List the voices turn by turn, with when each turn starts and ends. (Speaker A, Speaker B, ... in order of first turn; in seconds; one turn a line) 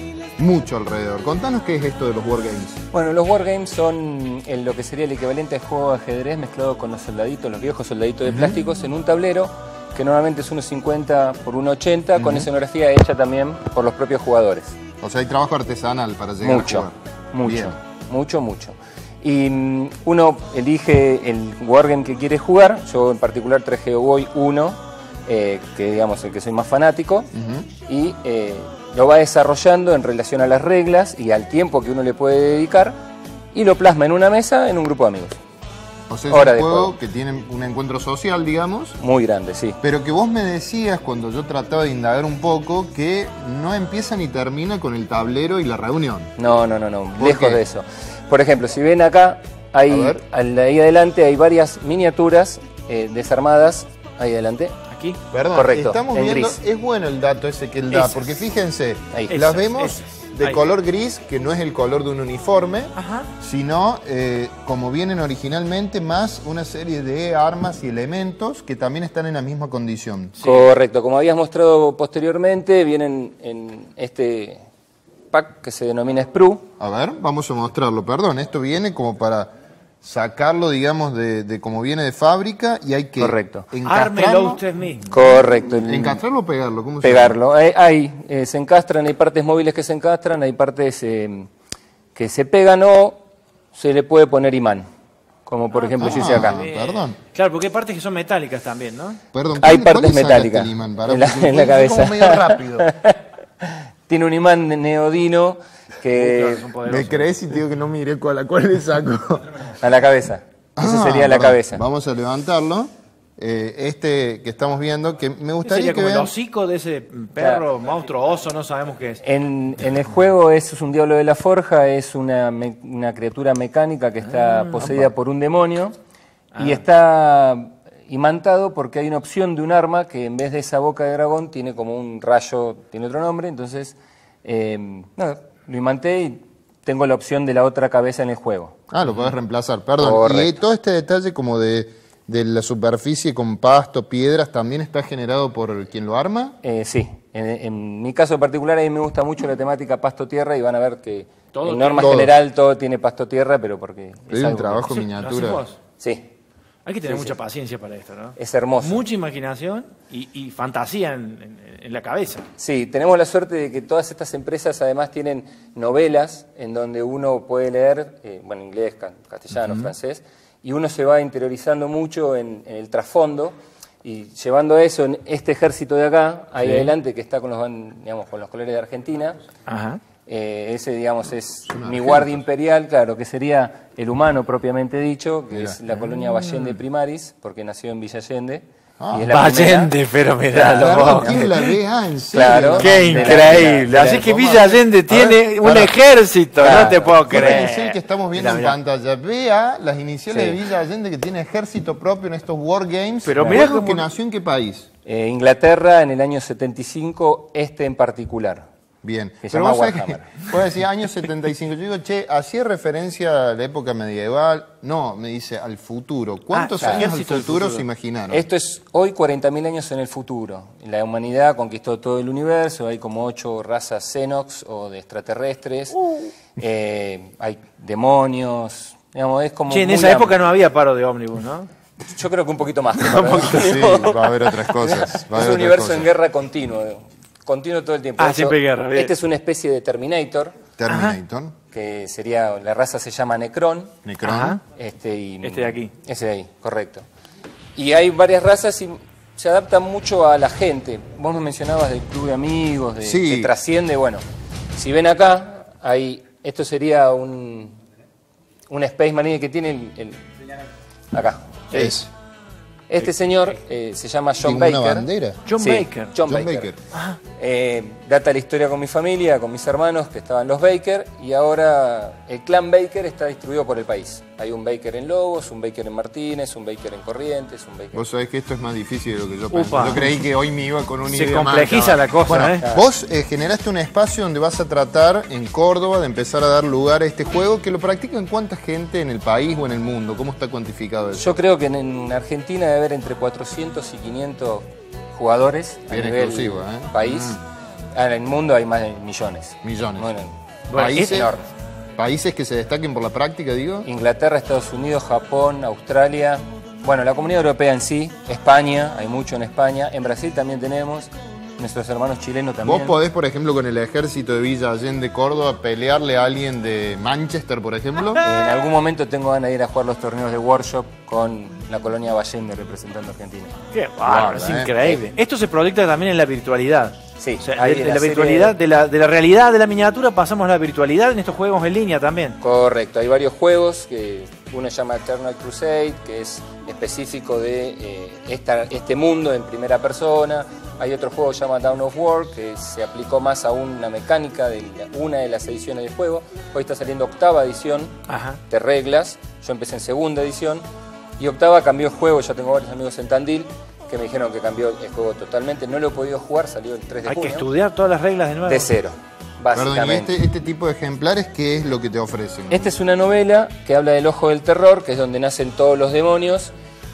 Speaker A: 0.4-2.8
Speaker B: 2.9-14.7
Speaker A: 8.2-8.6
Speaker A: 12.1-12.5
Speaker A: 15.0-17.7
Speaker B: 16.4-27.3
Speaker A: 27.3-27.7
Speaker B: 27.9-33.0
Speaker B: 33.5-35.4
Speaker A: 36.1-39.0
Speaker B: 36.3-36.9
Speaker B: 39.0-39.8
Speaker A: 39.8-46.3
Speaker B: 46.4-54.8
Speaker A: 47.2-47.6
Speaker A: 49.9-50.2
Speaker C: 54.9-55.2
Speaker A: 55.3-70.4
Speaker B: 55.5-56.6
Speaker C: 57.9-58.3
Speaker C: 59.3-60.6
Speaker C: 62.9-63.3
Speaker C: 70.4-70.7
Speaker B: 70.4-74.6
Speaker B: 75.3-76.7
Speaker A: 76.8-79.5
Speaker A: 80.0-84.6
Speaker B: 83.2-83.7
Speaker C: 83.8-85.1
Speaker B: 85.1-86.2
Speaker A: 85.8-87.4
Speaker B: 87.0-91.5
Speaker B: 92.1-93.2
Speaker B: 93.7-94.8
Speaker B: 95.5-96.6
Speaker C: 95.7-99.2
Speaker A: 96.0-97.2
Speaker A: 99.3-102.9
Speaker B: 99.6-106.7
Speaker C: 106.1-107.3
Speaker A: 106.8-109.6
Speaker B: 109.8-111.8
Speaker A: 110.8-116.3
Speaker C: 115.6-119.2
Speaker B: 117.4-117.7
Speaker B: 119.2-125.9
Speaker C: 124.3-124.9
Speaker C: 126.5-126.8
Speaker B: 126.6-138.8
Speaker A: 138.9-146.6
Speaker C: 139.0-139.3
Speaker B: 140.0-140.6
Speaker B: 146.6-154.9
Speaker C: 151.5-152.2
Speaker A: 152.0-152.3
Speaker A: 154.3-155.6
Speaker C: 154.8-155.8
Speaker B: 156.0-156.3
Speaker C: 156.8-162.4
Speaker B: 157.0-157.4
Speaker B: 158.3-159.0
Speaker B: 162.6-179.4
Speaker C: 176.6-176.9
Speaker C: 179.7-180.0
Speaker B: 180.2-189.9
Speaker A: 181.7-182.4
Speaker A: 185.5-185.8
Speaker A: 189.0-189.3
Speaker C: 189.3-191.7
Speaker B: 190.5-191.4
Speaker A: 190.8-195.9
Speaker B: 192.3-194.2
Speaker C: 192.7-198.8
Speaker A: 196.6-204.8
Speaker B: 196.6-197.8
Speaker B: 200.3-200.6
Speaker C: 203.2-204.1
Speaker B: 205.0-208.6
Speaker A: 209.0-218.4
Speaker B: 209.4-210.4
Speaker C: 216.5-217.8
Speaker B: 216.8-217.1
Speaker B: 218.3-230.4
Speaker C: 229.7-231.7
Speaker B: 232.0-240.6
Speaker C: 233.1-233.5
Speaker A: 233.3-236.1
Speaker C: 238.2-239.1
Speaker A: 240.8-241.5
Speaker C: 240.9-241.2
Speaker B: 241.7-243.9
Speaker A: 244.0-244.6
Speaker C: 244.2-244.6
Speaker B: 244.7-247.0
Speaker C: 245.4-245.9
Speaker B: 247.8-254.2
Speaker A: 253.0-253.5
Speaker B: 254.7-257.8
Speaker B: 258.7-260.2
Speaker B: 261.1-261.6
Speaker C: 261.7-262.0
Speaker A: 261.7-262.1
Speaker B: 262.9-266.7
Speaker A: 264.4-265.4
Speaker C: 265.4-266.1
Speaker A: 266.2-266.8
Speaker C: 266.9-267.2
Speaker B: 267.4-278.0
Speaker A: 277.9-291.3
Speaker C: 279.5-280.2
Speaker C: 281.1-282.6
Speaker B: 291.1-297.4
Speaker A: 295.9-296.9
Speaker B: 297.9-300.3
Speaker A: 299.6-300.1
Speaker C: 300.7-301.2
Speaker A: 300.7-301.4
Speaker B: 300.9-301.5
Speaker A: 302.0-303.9
Speaker B: 303.8-312.9
Speaker A: 312.6-318.2
Speaker B: 318.2-323.6
Speaker C: 323.7-332.4
Speaker A: 324.0-324.8
Speaker B: 327.2-328.6
Speaker B: 332.4-348.0
Speaker C: 348.1-348.4
Speaker B: 348.5-350.6
Speaker B: 351.2-357.5
Speaker C: 357.0-358.7
Speaker B: 358.4-360.1
Speaker A: 359.5-362.7
Speaker B: 362.5-366.5